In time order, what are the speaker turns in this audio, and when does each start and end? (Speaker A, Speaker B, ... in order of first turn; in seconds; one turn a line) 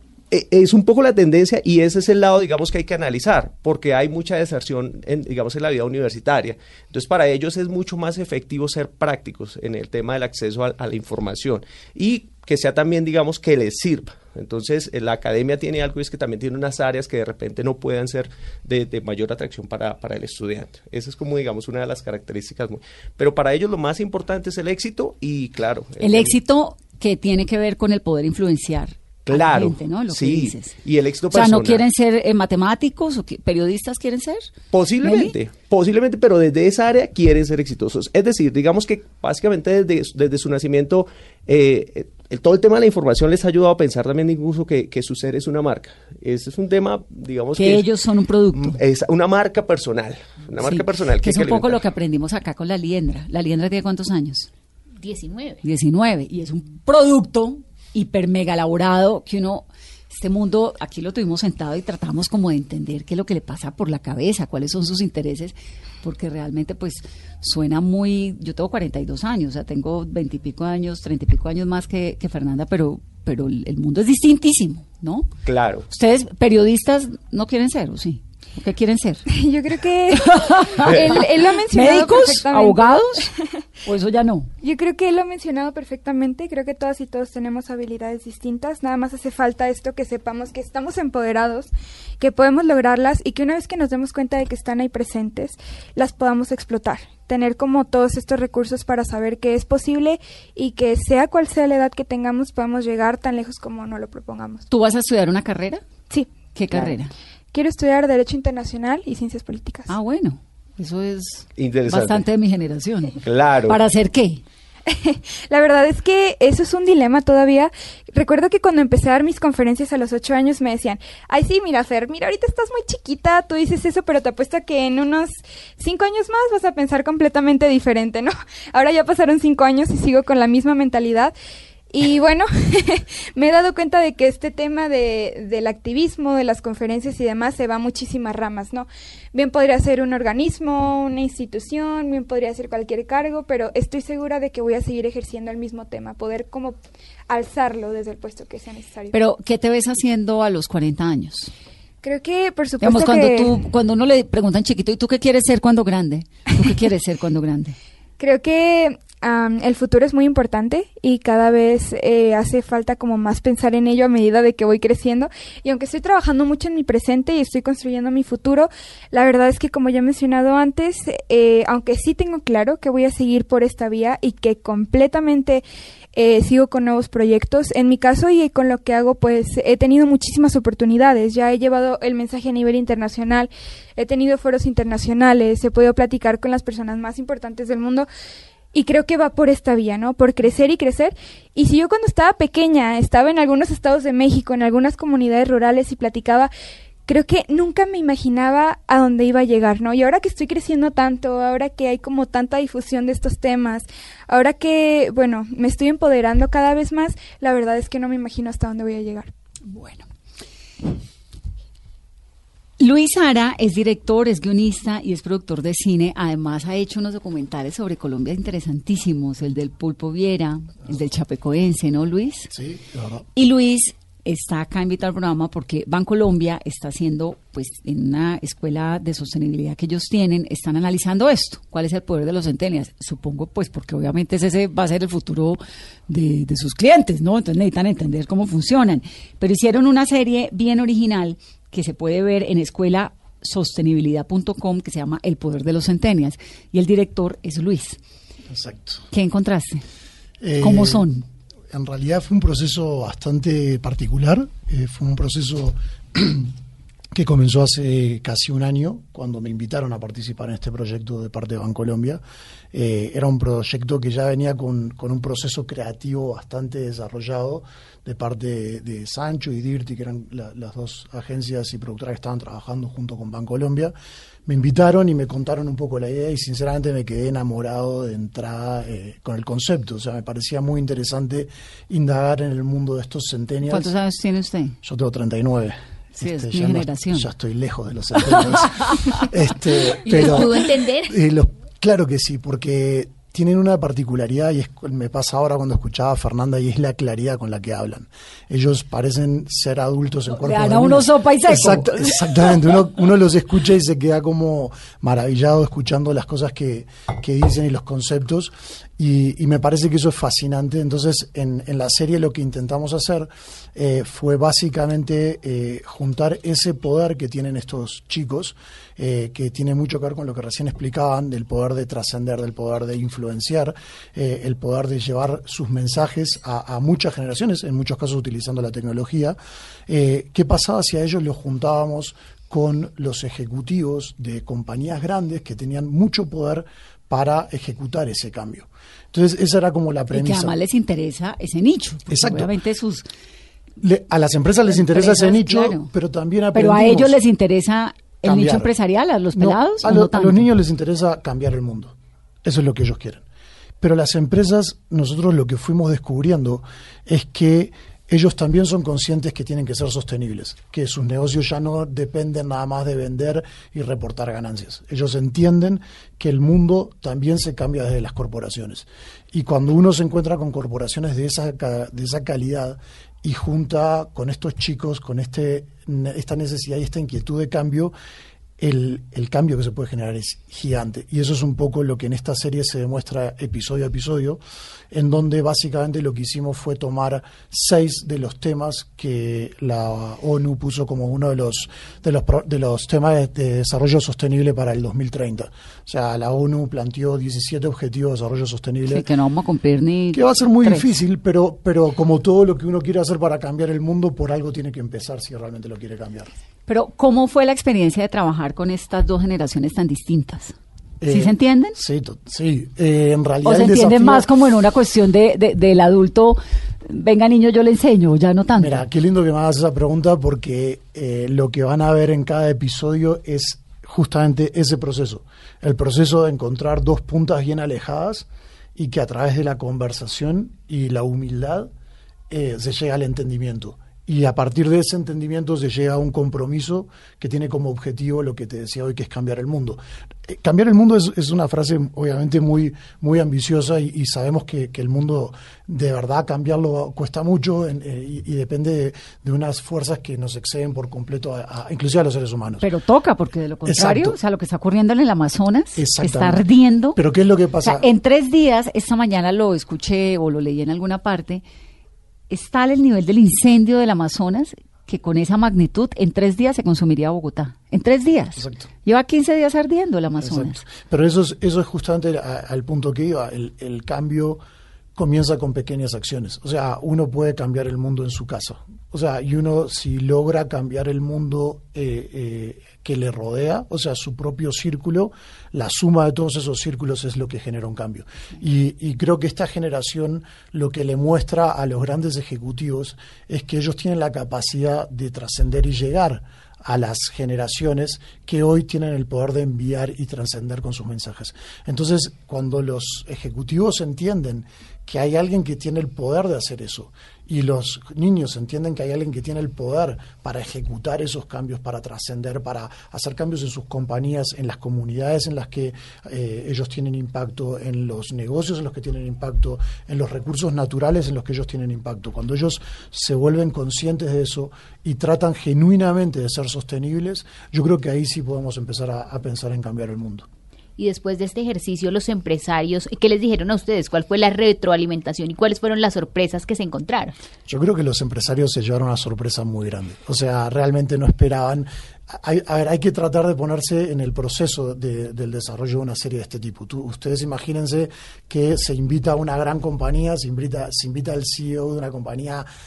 Speaker A: 0.3-26.4
Speaker B: 26.0-30.8
Speaker A: 29.3-31.8
Speaker B: 31.3-34.5
Speaker A: 34.7-47.9
Speaker B: 35.0-35.3
Speaker B: 47.6-48.8
Speaker A: 48.5-51.8
Speaker B: 50.6-54.5
Speaker C: 55.0-55.6
Speaker B: 55.6-75.3
Speaker A: 75.5-75.9
Speaker B: 75.9-79.3
Speaker D: 79.3-83.4
Speaker B: 80.1-83.3
Speaker A: 80.8-81.3
Speaker B: 83.8-84.5
Speaker D: 84.6-104.7
Speaker B: 104.7-105.8
Speaker D: 106.1-106.9
Speaker B: 106.5-107.1
Speaker D: 107.5-109.9
Speaker B: 109.9-114.4
Speaker A: 111.6-112.2
Speaker A: 113.2-113.8
Speaker D: 114.9-131.3
Speaker D: 131.9-146.8
Speaker D: 147.3-149.2
Speaker B: 149.1-151.5
Speaker D: 152.0-153.5
Speaker B: 152.8-157.8
Speaker D: 158.2-175.6
Speaker D: 176.2-188.1
Speaker D: 188.7-196.5
Speaker D: 197.1-209.3
Speaker B: 209.7-210.1
Speaker B: 212.8-222.5
Speaker E: 222.5-223.3
Speaker B: 223.4-248.0
Speaker E: 248.5-249.0
Speaker B: 249.1-249.8
Speaker E: 250.4-251.1
Speaker B: 250.6-251.3
Speaker E: 251.7-256.5
Speaker E: 257.1-262.2
Speaker E: 262.7-273.9
Speaker E: 274.5-283.9
Speaker B: 283.7-284.8
Speaker E: 284.8-329.4
Speaker B: 286.2-287.3
Speaker B: 288.3-289.2
Speaker C: 290.0-291.2
Speaker B: 300.3-302.6
Speaker E: 329.9-340.6
Speaker B: 340.1-343.1
Speaker E: 342.1-342.5
Speaker E: 343.8-347.2
Speaker B: 344.7-345.9
Speaker B: 346.5-350.5
Speaker E: 348.2-348.7
Speaker E: 349.4-353.2
Speaker E: 353.8-377.9
Speaker E: 378.6-384.4
Speaker E: 384.9-399.1
Speaker B: 398.9-400.9
Speaker E: 400.1-406.3
Speaker B: 406.7-410.6
Speaker E: 411.0-414.3
Speaker B: 411.1-411.8
Speaker B: 413.4-418.8
Speaker E: 418.6-431.7
Speaker E: 432.3-452.7
Speaker B: 452.6-457.0
Speaker E: 453.7-454.2
Speaker E: 455.8-456.4
Speaker E: 457.0-457.9
Speaker B: 457.6-461.4
Speaker B: 462.3-470.6
Speaker E: 468.4-468.7
Speaker E: 470.2-474.4
Speaker E: 474.9-530.3
Speaker C: 530.8-537.1
Speaker E: 537.5-552.5